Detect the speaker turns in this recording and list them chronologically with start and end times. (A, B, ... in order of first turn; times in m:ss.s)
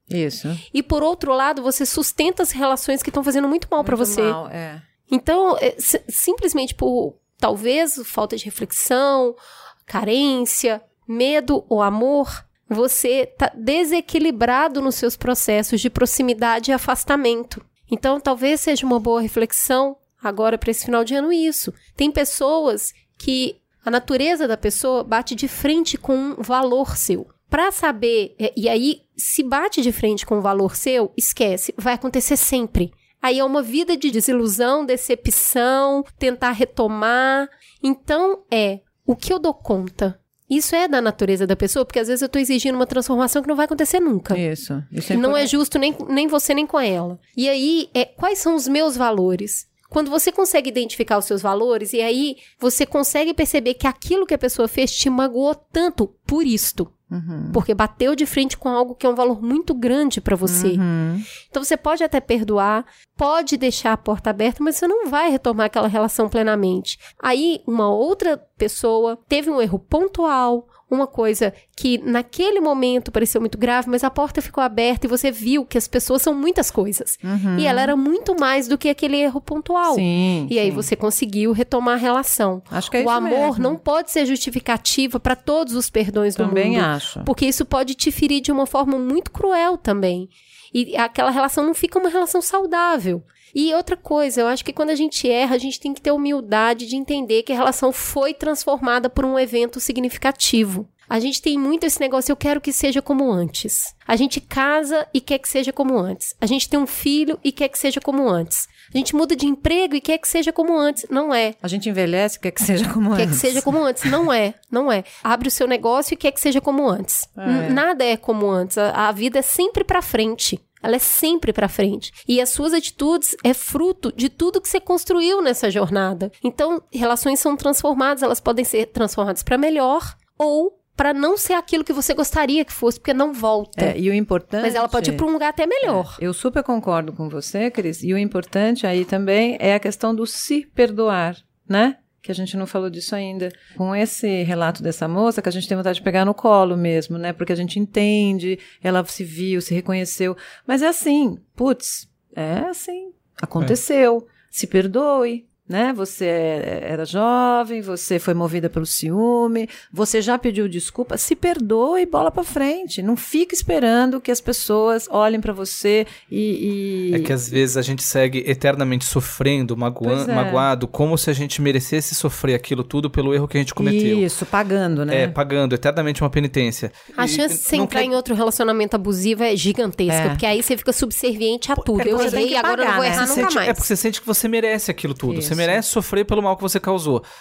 0:00.1-0:00.6 A
0:00.7-0:04.4 B
0:03.8-0:04.8 A
0:05.1-0:44.4 B
0:44.3-0:45.5 A
0:45.1-0:56.9 B
0:57.1-0:57.6 A
0:57.5-1:00.8 B
1:00.4-1:01.3 A
1:01.4-1:51.6 B
1:17.2-1:18.0 A
1:19.8-1:20.9 A
1:22.7-1:23.8 A
1:26.4-1:27.3 A
1:51.6-1:53.7 A
1:53.2-2:14.0 B
1:57.4-1:57.8 A
2:13.8-2:15.2 A
2:14.6-2:16.2 B
2:15.8-2:47.4 A
2:47.1-2:54.3 C
2:50.0-2:50.7 A
2:53.8-2:55.4 A
2:55.1-2:58.1 C
2:57.2-3:03.9 B
3:00.1-3:00.4 A
3:01.8-3:02.4 C
3:02.0-3:03.5 A
3:03.1-3:07.2 C
3:05.3-3:05.8 A